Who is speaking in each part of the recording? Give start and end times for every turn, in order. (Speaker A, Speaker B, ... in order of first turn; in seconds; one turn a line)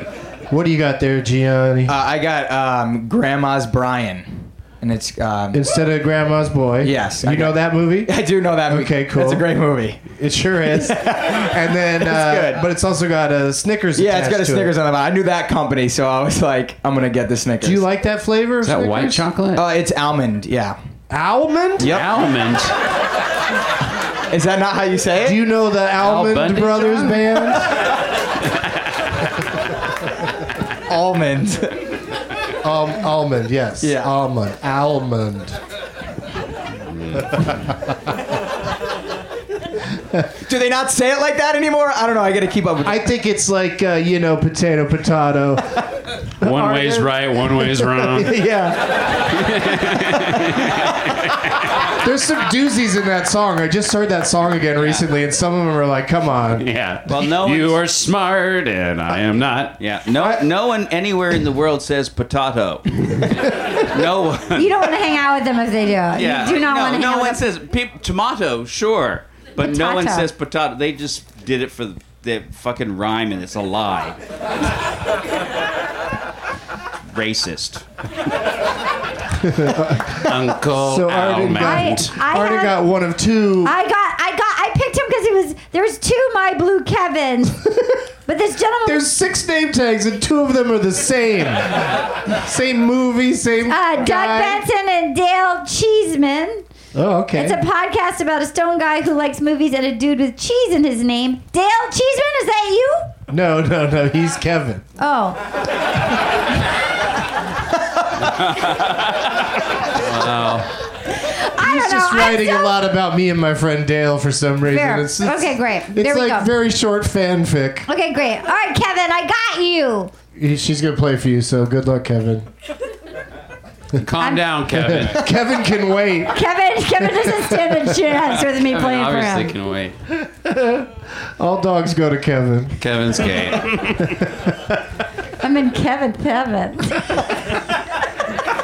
Speaker A: 0.5-1.9
Speaker B: 1.9-5.6
Speaker A: 5.5-9.5
Speaker B: 6.8-10.0
Speaker A: 10.1-14.8
Speaker B: 10.6-12.6
Speaker B: 13.9-17.8
Speaker A: 17.6-19.3
Speaker C: 18.6-19.6
Speaker B: 19.5-20.8
Speaker A: 21.1-21.9
Speaker B: 21.8-22.3
Speaker C: 21.8-22.7
Speaker B: 24.3-25.4
Speaker A: 25.2-27.8
Speaker C: 26.0-27.7
Speaker B: 30.9-31.8
Speaker A: 32.6-35.6
Speaker B: 33.8-34.1
Speaker C: 37.1-37.5
Speaker B: 40.5-43.1
Speaker A: 42.8-45.8
Speaker C: 46.4-48.4
Speaker A: 46.4-50.4
Speaker C: 49.3-51.0
Speaker A: 52.0-56.7
Speaker D: 54.8-55.0
Speaker C: 56.6-59.8
Speaker D: 57.0-57.8
Speaker D: 59.8-64.8
Speaker E: 64.5-67.4
Speaker D: 66.1-74.2
Speaker E: 69.6-70.3
Speaker D: 77.1-77.8
Speaker A: 79.4-83.7
Speaker C: 80.2-82.1
Speaker E: 81.6-82.8
Speaker E: 83.6-87.6
Speaker A: 87.6-88.0
Speaker E: 88.3-89.0
Speaker A: 88.8-94.6
Speaker E: 93.7-96.6
Speaker A: 96.9-97.6
Speaker E: 97.4-103.1
Speaker A: 103.3-104.8
Speaker E: 105.0-105.4
Speaker C: 110.0-110.7
Speaker E: 111.1-112.8
Speaker A: 111.6-117.9
Speaker E: 114.7-116.5
Speaker E: 117.9-120.1
Speaker A: 120.3-122.5
Speaker C: 124.0-125.2
Speaker E: 124.2-124.5
Speaker A: 124.8-126.4
Speaker E: 126.3-129.6
Speaker A: 127.0-128.0
Speaker C: 128.5-129.9
Speaker A: 130.1-132.8
Speaker C: 132.8-134.1
Speaker A: 134.0-134.8
Speaker E: 135.4-137.2